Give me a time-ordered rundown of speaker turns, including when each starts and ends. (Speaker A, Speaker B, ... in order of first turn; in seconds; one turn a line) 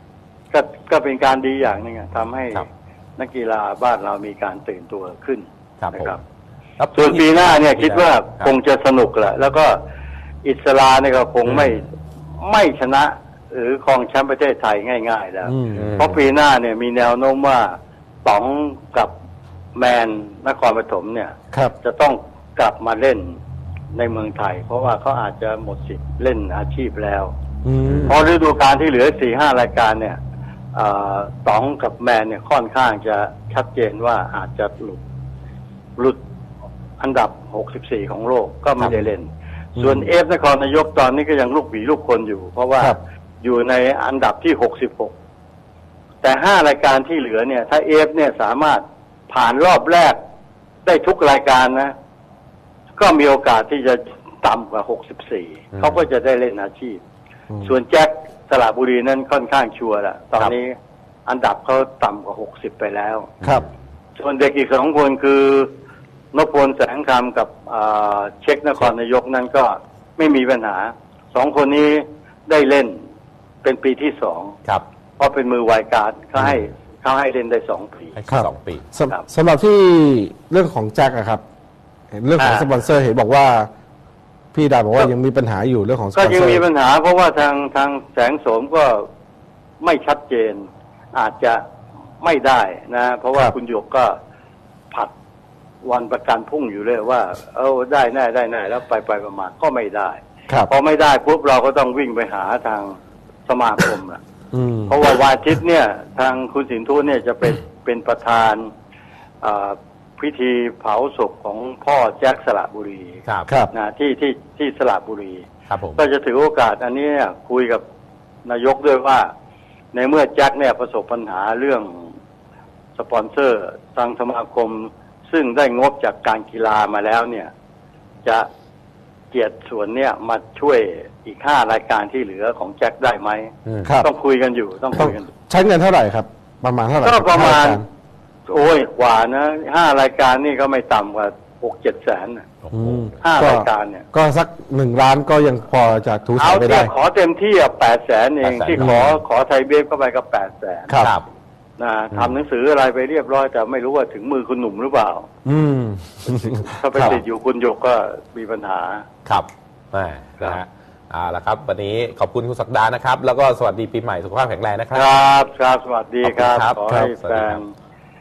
Speaker A: 0.5-6.2
Speaker B: 5.8-6.2
Speaker B: 6.8-8.5
Speaker A: 7.0-9.7
Speaker A: 10.4-11.9
Speaker B: 11.5-11.8
Speaker A: 12.4-19.1
Speaker C: 15.4-15.9
Speaker B: 15.7-16.2
Speaker A: 19.8-23.4
Speaker A: 23.9-27.3
Speaker C: 27.6-28.3
Speaker B: 27.8-28.2
Speaker A: 28.1-30.2
Speaker A: 30.7-35.0
Speaker A: 37.0-45.1
Speaker C: 39.8-40.1
Speaker A: 46.2-50.2
Speaker A: 50.8-51.9
Speaker A: 53.0-57.0
Speaker A: 57.6-60.7
Speaker A: 61.2-63.3
Speaker B: 63.4-63.7
Speaker A: 64.2-65.7
Speaker A: 66.3-73.0
Speaker A: 73.6-74.5
Speaker A: 75.2-78.2
Speaker B: 78.1-78.8
Speaker C: 78.3-81.4
Speaker C: 82.1-83.7
Speaker A: 82.4-82.7
Speaker C: 84.5-86.6
Speaker A: 86.1-89.0
Speaker A: 89.8-91.6
Speaker A: 92.2-94.1
Speaker A: 95.8-103.0
Speaker A: 103.5-104.2
Speaker C: 104.5-105.0
Speaker A: 104.9-108.7
Speaker A: 109.4-113.2
Speaker B: 113.2-113.5
Speaker A: 113.7-115.5
Speaker B: 115.7-116.0
Speaker A: 116.0-117.8
Speaker A: 118.4-119.3
Speaker A: 119.9-122.1
Speaker A: 122.9-127.5
Speaker A: 129.3-135.3
Speaker B: 133.7-134.0
Speaker C: 134.9-137.8
Speaker A: 137.0-137.8
Speaker A: 138.5-142.4
Speaker B: 142.6-143.2
Speaker C: 142.7-146.9
Speaker A: 143.2-144.1
Speaker A: 146.4-151.0
Speaker B: 148.4-149.0
Speaker C: 148.8-149.2
Speaker B: 151.0-151.2
Speaker A: 151.8-155.3
Speaker C: 155.4-157.2
Speaker A: 156.7-159.0
Speaker B: 159.2-165.2
Speaker A: 164.9-167.7
Speaker B: 166.2-167.6